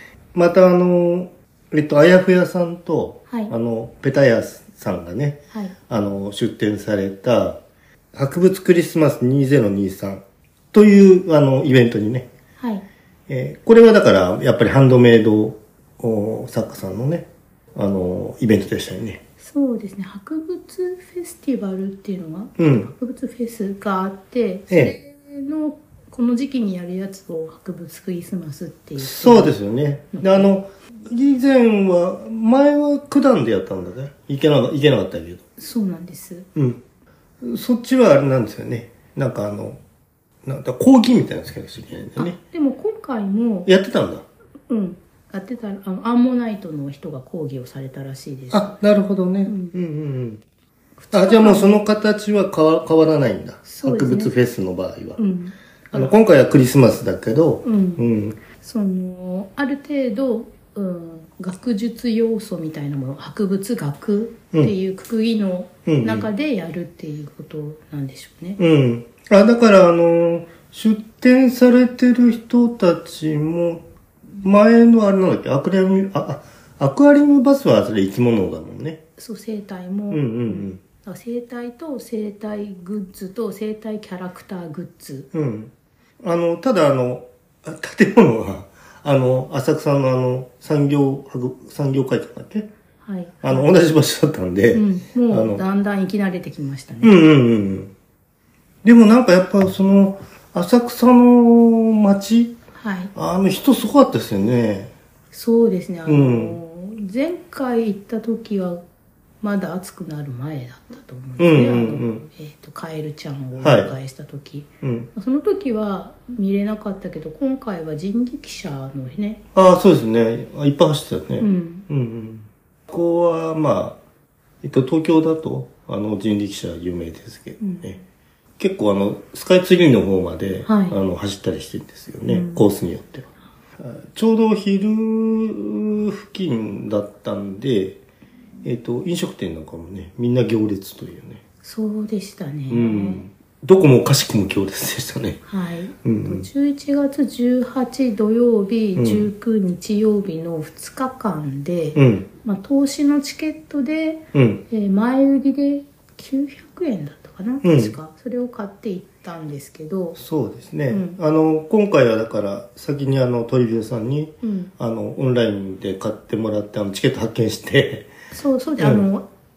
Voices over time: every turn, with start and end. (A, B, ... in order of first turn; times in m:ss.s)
0:00.3-0:05.4 A
0:05.9-0:07.6 A
0:08.1-0:12.3 A
0:12.6-0:12.8 B
0:13.3-0:19.2 A
0:19.4-0:29.5 B
0:22.6-0:22.9 A
0:24.7-0:25.0 A
0:29.0-0:35.4 A
0:30.1-0:30.5 B
0:35.6-0:36.5 B
0:36.6-0:36.8 A
0:37.4-0:39.8 A
0:40.4-0:42.4 A
0:42.2-0:43.7 B
0:43.7-0:44.2 A
0:44.7-0:48.8 B
0:48.5-0:50.4 A
0:49.5-0:49.7 B
0:51.0-0:51.8 B
0:51.1-0:55.2 A
0:53.7-0:54.3 B
0:55.2-0:56.1 B
0:55.9-0:58.4 A
0:57.6-0:58.0 B
0:58.6-1:08.6 B
1:05.8-1:06.3 A
1:08.6-1:13.8 A
1:14.4-1:19.0 A
1:19.2-1:25.3 B
1:20.1-1:20.8 A
1:25.3-1:32.7 A
1:33.0-1:33.7 B
1:33.4-1:35.6 A
1:34.7-1:37.2 B
1:37.0-1:37.9 A
1:38.8-1:42.6 A
1:42.7-1:43.1 B
1:43.1-1:44.9 A
1:45.3-1:48.8 B
1:46.0-1:46.6 A
1:49.4-1:59.4 B
1:51.4-1:52.3 A
1:53.6-1:53.9 A
1:54.8-1:55.1 A
1:59.6-2:04.0 A
2:01.4-2:01.9 B
2:04.6-2:08.0 A
2:07.6-2:07.9 B
2:08.6-2:13.3 A
2:10.7-2:11.0 B
2:12.3-2:12.7 B
2:13.8-2:18.0 A
2:18.6-2:21.4 A
2:21.6-2:23.2 B
2:22.7-2:25.4 A
2:25.5-2:40.2 B
2:26.0-2:26.5 A
2:29.0-2:29.3 A
2:32.0-2:32.3 A
2:34.3-2:34.6 A
2:37.6-2:37.9 A
2:40.2-2:48.1 A
2:40.9-2:41.2 B
2:44.4-2:44.7 B
2:48.3-2:49.3 B